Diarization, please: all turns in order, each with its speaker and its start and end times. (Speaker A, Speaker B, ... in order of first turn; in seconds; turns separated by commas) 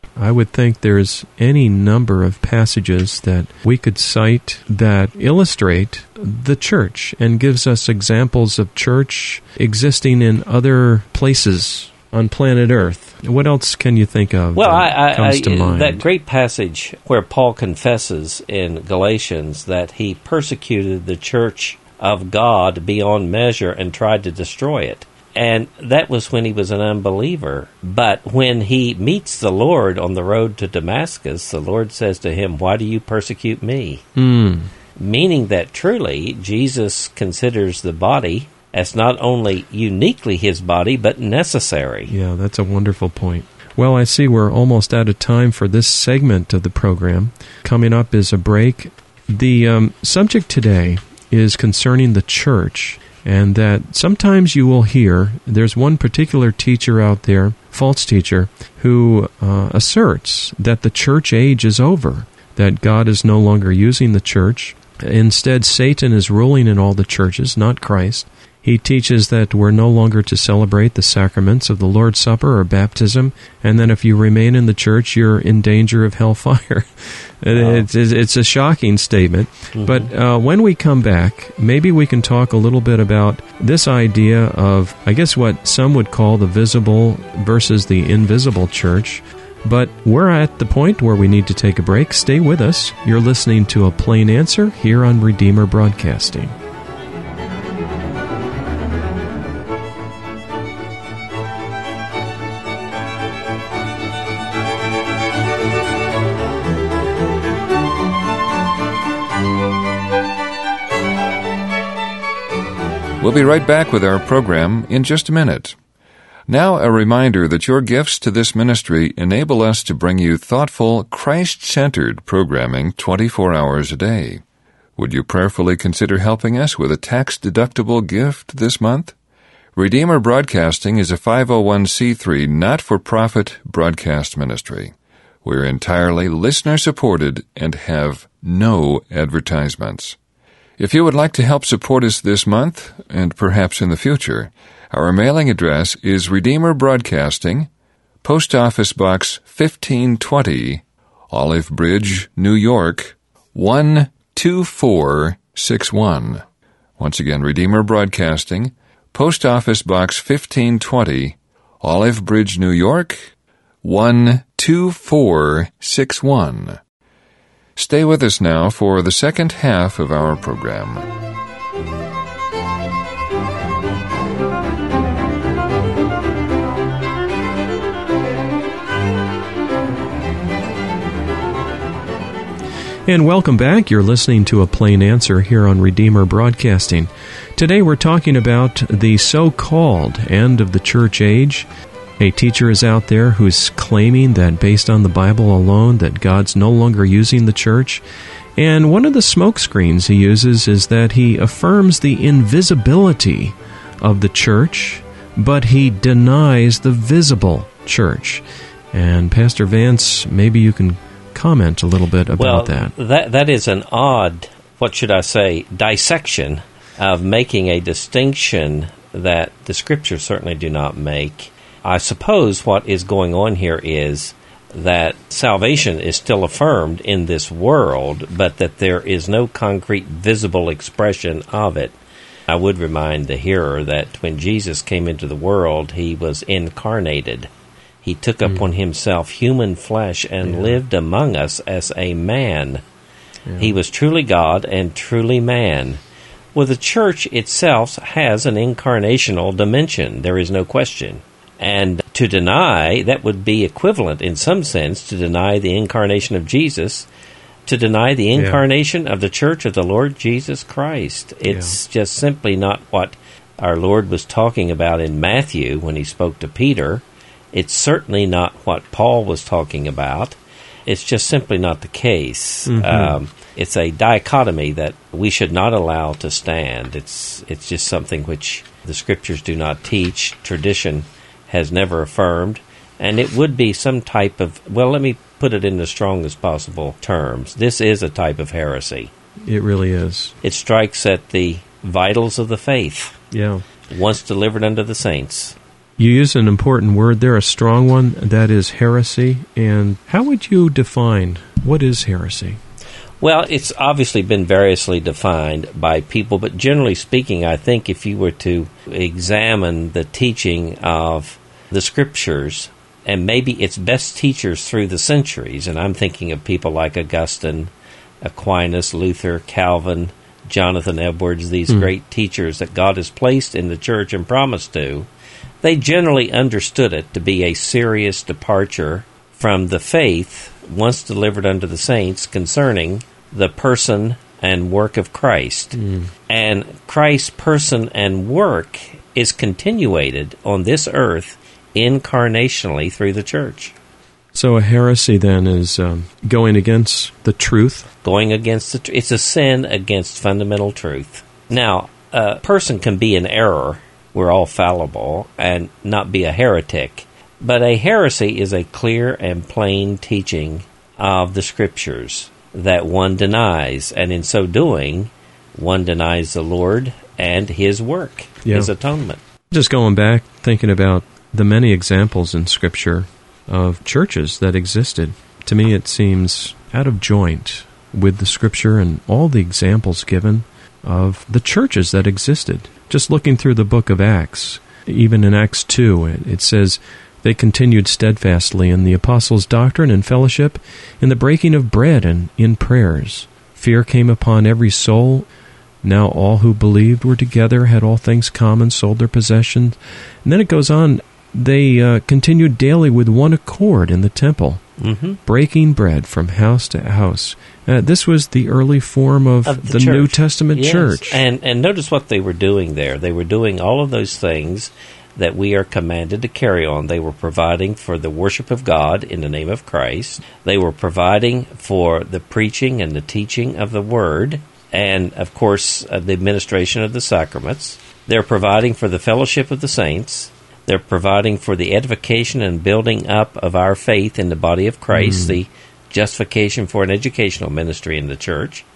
Speaker A: 0.2-16.0, Speaker B: 14.6-34.0, Speaker A: 34.2-34.7, Speaker B: 35.0-42.1, Speaker A: 42.1-96.5, Speaker B: 77.5-77.9, Speaker B: 79.7-80.1, Speaker C: 113.2-115.8, Speaker C: 116.5-124.4, Speaker C: 125.0-129.2, Speaker C: 129.8-134.9, Speaker C: 135.4-140.2, Speaker C: 140.8-147.7, Speaker C: 148.2-156.4, Speaker C: 157.0-163.3, Speaker C: 163.8-166.8, Speaker C: 167.8-171.1, Speaker A: 183.1-191.7, Speaker A: 192.2-198.0, Speaker A: 198.6-212.9, Speaker B: 212.4-231.9, Speaker B: 232.5-237.5, Speaker B: 238.0-242.8, Speaker A: 240.4-240.8, Speaker A: 243.5-243.7, Speaker B: 243.6-246.0, Speaker B: 246.6-257.1, Speaker B: 257.7-289.1, Speaker A: 258.4-258.6, Speaker A: 261.5-261.8, Speaker A: 272.7-273.2, Speaker A: 289.4-290.4, Speaker B: 290.4-293.2, Speaker A: 293.3-293.6, Speaker B: 293.9-295.6, Speaker A: 296.0-302.6, Speaker B: 303.2-325.1, Speaker B: 325.6-343.7, Speaker A: 335.8-336.1, Speaker A: 344.3-347.9, Speaker B: 348.0-369.2, Speaker A: 368.4-368.7, Speaker A: 369.5-395.3, Speaker A: 395.8-404.6, Speaker B: 404.8-405.2, Speaker A: 405.2-411.2, Speaker B: 409.4-438.7, Speaker A: 434.9-435.4